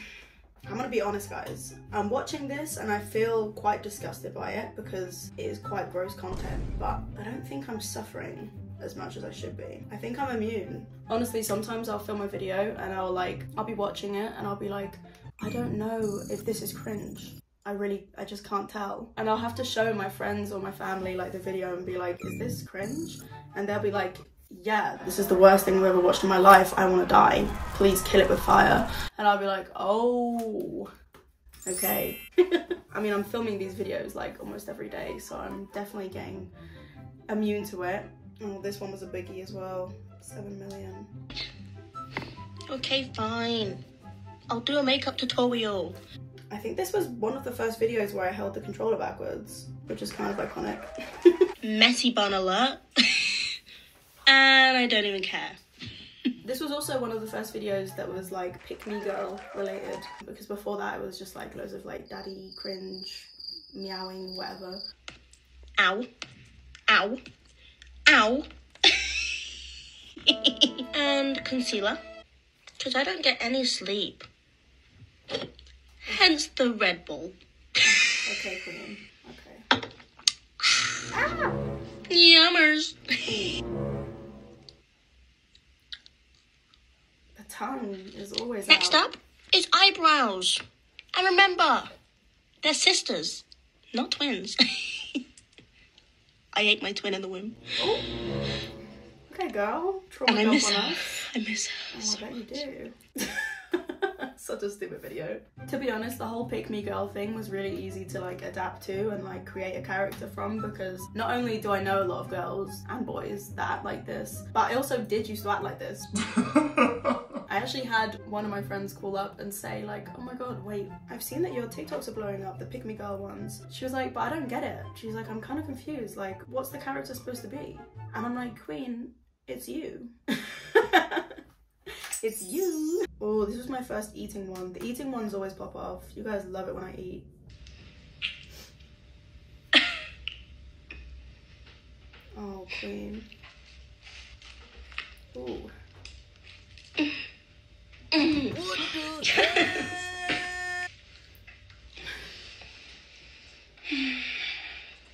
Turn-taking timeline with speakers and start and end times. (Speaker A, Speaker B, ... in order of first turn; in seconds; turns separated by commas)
Speaker A: 0.7-30.9, Speaker A: 31.7-36.5, Speaker A: 37.3-41.1, Speaker B: 42.7-43.8, Speaker B: 44.5-46.0, Speaker A: 46.5-50.9, Speaker B: 51.6-52.9, Speaker B: 54.3-55.6, Speaker A: 56.4-64.8, Speaker B: 65.8-66.1, Speaker B: 66.9-67.2, Speaker B: 68.1-68.5, Speaker B: 70.3-72.0, Speaker B: 72.8-74.3, Speaker B: 76.1-77.4, Speaker A: 77.9-79.6, Speaker B: 82.1-83.3, Speaker A: 83.3-83.6, Speaker A: 87.4-89.1, Speaker B: 88.7-90.6, Speaker B: 91.1-91.9, Speaker B: 92.6-95.2, Speaker B: 96.5-97.6, Speaker A: 99.3-101.2, Speaker B: 100.3-102.2, Speaker A: 101.9-103.0, Speaker A: 103.7-116.1, Speaker A: 117.5-131.3, Speaker A: 132.2-137.3, Speaker A: 142.4-143.3, Speaker A: 145.3-145.7, Speaker B: 148.2-149.8